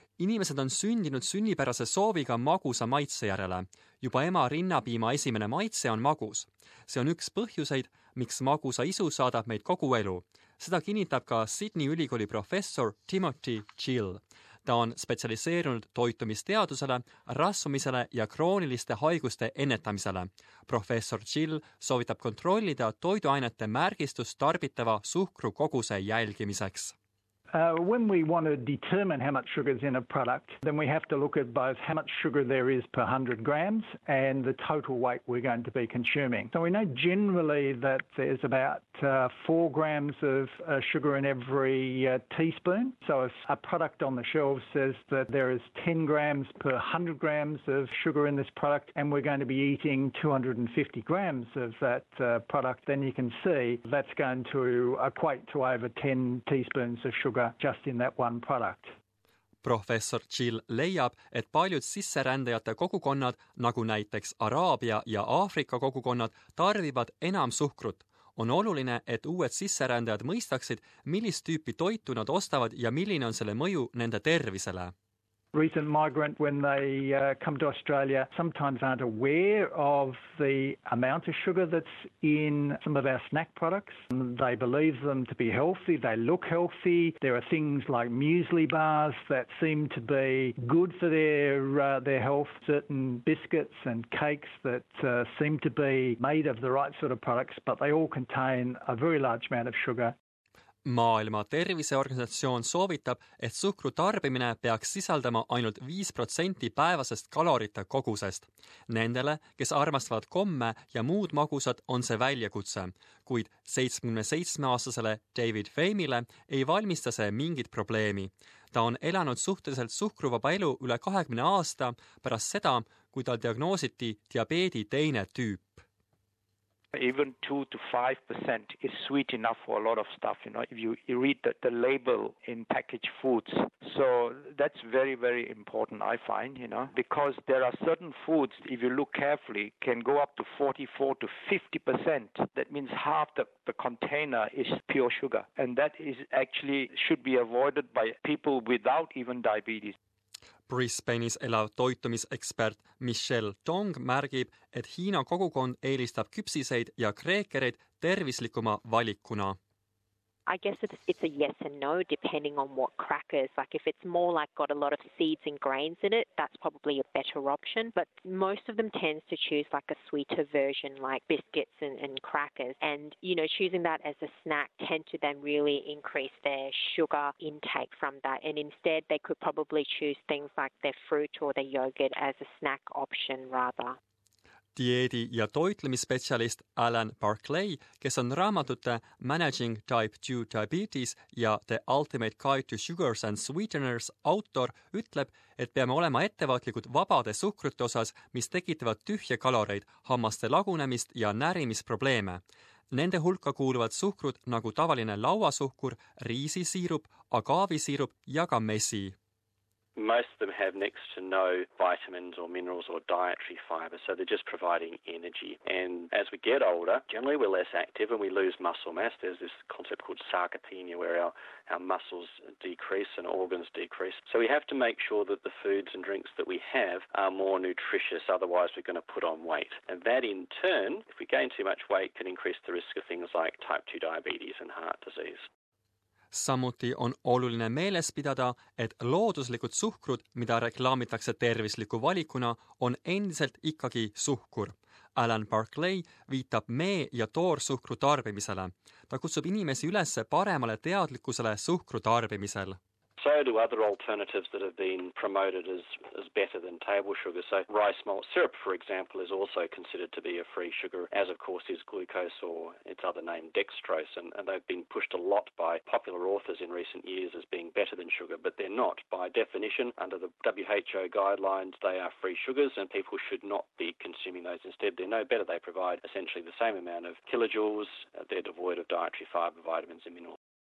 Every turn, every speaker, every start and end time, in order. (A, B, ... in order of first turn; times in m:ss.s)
0:00.2-0:26.9 A
0:27.5-0:58.9 B
0:59.6-1:14.9 A
1:15.5-1:40.1 B
1:40.8-2:05.8 A
2:06.9-2:29.9 C
2:30.7-2:39.6 A
2:40.5-3:04.0 D
3:04.8-3:29.1 A
3:30.0-3:55.4 E
3:56.3-4:12.8 A
4:13.2-4:40.4 E